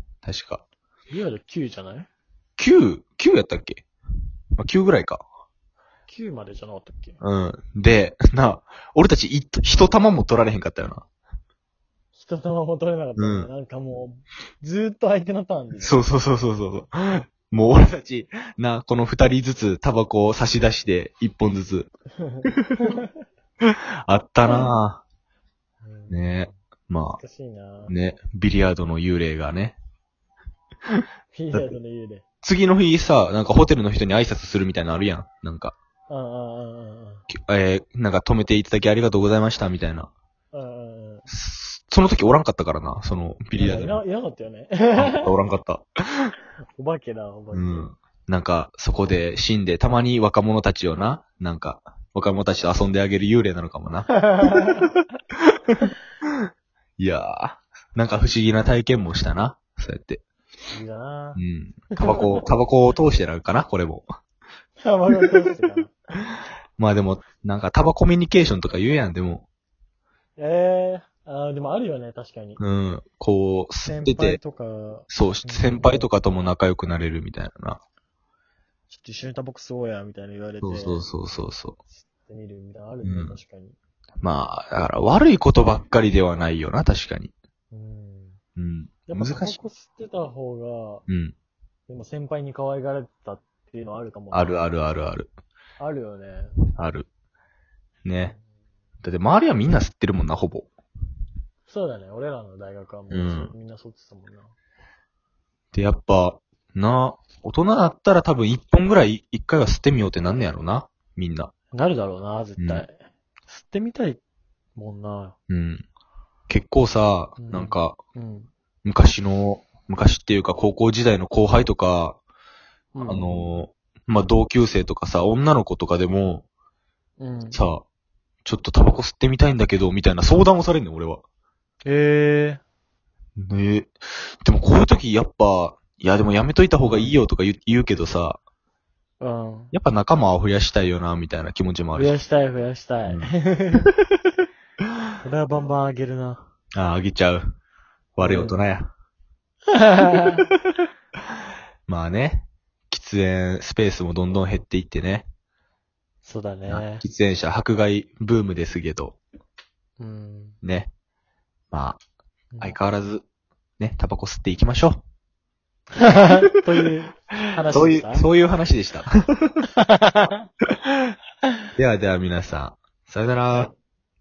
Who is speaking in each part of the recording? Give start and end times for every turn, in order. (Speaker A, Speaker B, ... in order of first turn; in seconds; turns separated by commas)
Speaker A: 0.2-0.6, Speaker B: 1.1-2.1, Speaker A: 2.6-3.8, Speaker A: 4.6-5.2, Speaker B: 6.1-7.2, Speaker A: 7.2-11.0, Speaker B: 12.1-16.0, Speaker A: 13.2-13.5, Speaker A: 15.8-21.9, Speaker B: 22.2-23.1, Speaker A: 22.5-22.7, Speaker A: 23.6-25.0, Speaker B: 24.4-24.7, Speaker B: 25.8-26.4, Speaker A: 26.1-27.2, Speaker B: 27.2-27.9, Speaker A: 27.9-29.8, Speaker B: 31.3-32.2, Speaker A: 32.4-35.7, Speaker B: 36.1-37.2, Speaker A: 37.3-40.1, Speaker B: 40.5-41.3, Speaker A: 41.3-44.0, Speaker B: 43.6-45.4, Speaker A: 45.0-46.3, Speaker B: 46.7-47.9, Speaker A: 47.5-54.1, Speaker B: 54.1-54.9, Speaker A: 57.0-60.2, Speaker B: 60.7-61.4, Speaker A: 61.3-64.0, Speaker B: 62.0-62.4, Speaker B: 64.8-65.9, Speaker A: 66.8-69.4, Speaker B: 70.4-72.6, Speaker A: 72.6-74.4, Speaker B: 73.8-76.1, Speaker A: 75.1-77.8, Speaker B: 78.9-81.0, Speaker A: 80.6-81.8, Speaker B: 82.0-83.8, Speaker A: 83.0-83.4, Speaker A: 84.2-87.3, Speaker B: 87.7-88.4, Speaker A: 88.6-89.6, Speaker B: 89.1-91.0, Speaker A: 91.1-91.3, Speaker B: 91.9-94.5, Speaker A: 94.3-95.3, Speaker B: 95.8-96.6, Speaker A: 96.8-97.0, Speaker A: 98.0-98.3, Speaker A: 99.0-100.7, Speaker B: 101.7-104.5, Speaker A: 103.1-103.5, Speaker A: 105.7-111.5, Speaker B: 111.7-113.0, Speaker A: 112.6-112.8, Speaker B: 113.5-114.2, Speaker B: 114.8-115.3, Speaker A: 115.5-115.8, Speaker A: 116.5-118.0, Speaker B: 117.4-118.5, Speaker A: 118.8-122.2, Speaker B: 122.9-123.5, Speaker A: 123.0-126.4, Speaker B: 127.2-127.6, Speaker A: 127.5-127.8, Speaker A: 128.4-131.2, Speaker B: 131.8-132.6, Speaker A: 133.4-138.4, Speaker B: 136.8-137.1, Speaker B: 139.2-139.7, Speaker A: 139.7-142.2, Speaker B: 141.9-143.9, Speaker B: 145.2-146.5, Speaker A: 146.8-147.5, Speaker A: 148.2-148.9, Speaker B: 148.2-148.6, Speaker B: 149.7-150.4, Speaker A: 151.9-155.3, Speaker B: 156.2-157.0, Speaker A: 156.7-159.2, Speaker B: 160.0-160.6, Speaker A: 160.6-160.9, Speaker A: 161.7-162.0, Speaker B: 162.5-162.8, Speaker A: 162.6-163.2, Speaker A: 163.8-165.0, Speaker B: 166.0-168.3, Speaker A: 167.7-169.6, Speaker B: 169.8-170.4, Speaker A: 171.8-173.7